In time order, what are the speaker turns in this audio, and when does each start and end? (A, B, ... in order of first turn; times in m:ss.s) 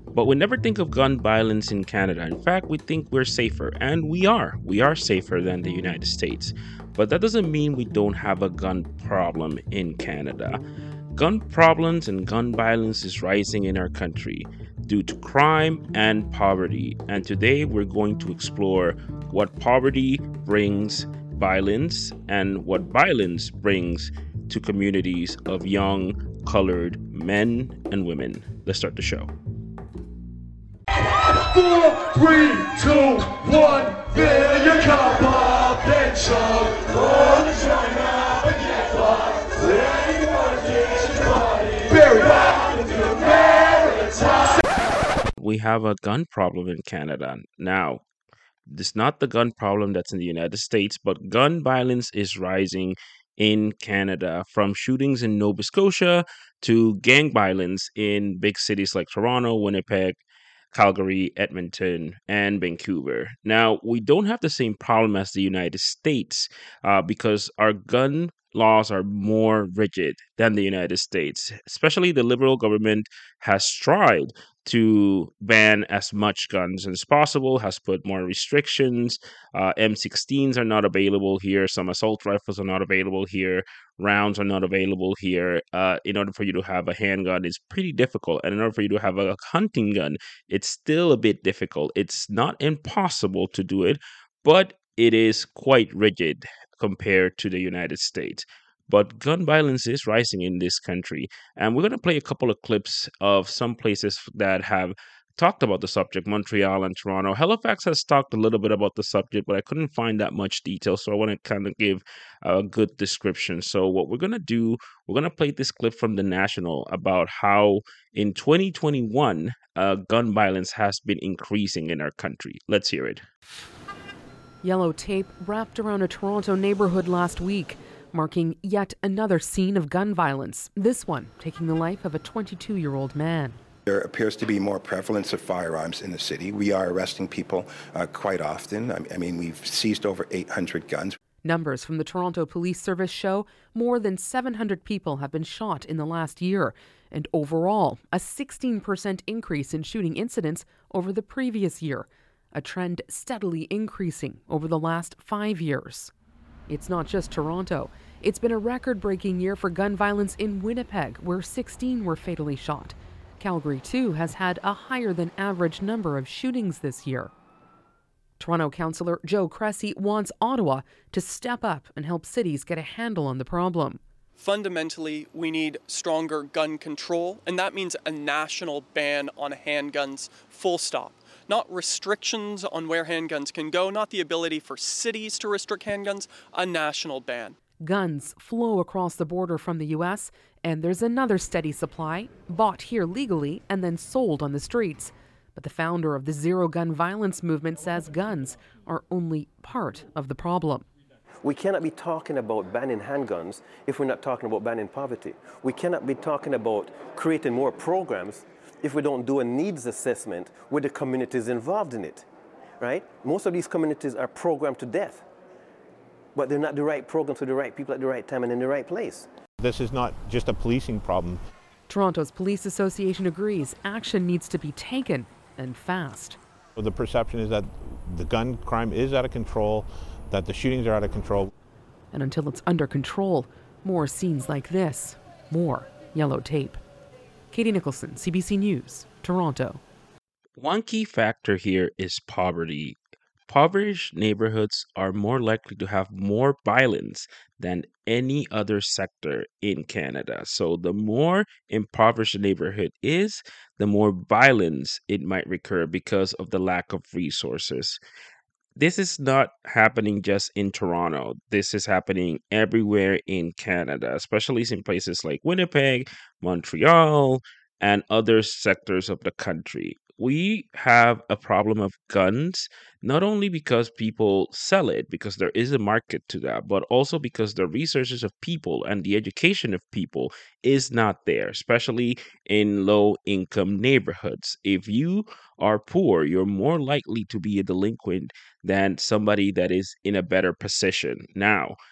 0:00.1-0:10.6 A
0:11.2-0:29.3 A
0:45.4-0:48.0 A
0:48.7-1:00.2 A
1:00.7-2:03.2 A
2:04.6-2:13.6 B
2:13.8-2:21.2 C
2:21.4-2:36.1 B
2:36.7-2:47.3 B
2:48.4-2:54.0 B
2:54.4-3:07.6 D
3:07.8-3:20.8 B
3:21.4-3:32.2 E
3:32.8-3:35.2 E
3:36.3-3:39.3 E
3:39.6-3:41.4 F
3:41.9-3:46.4 B
3:46.8-3:51.5 F
3:52.1-3:56.8 B
3:57.5-3:59.8 B
4:00.6-4:18.0 A
4:18.8-4:51.8 A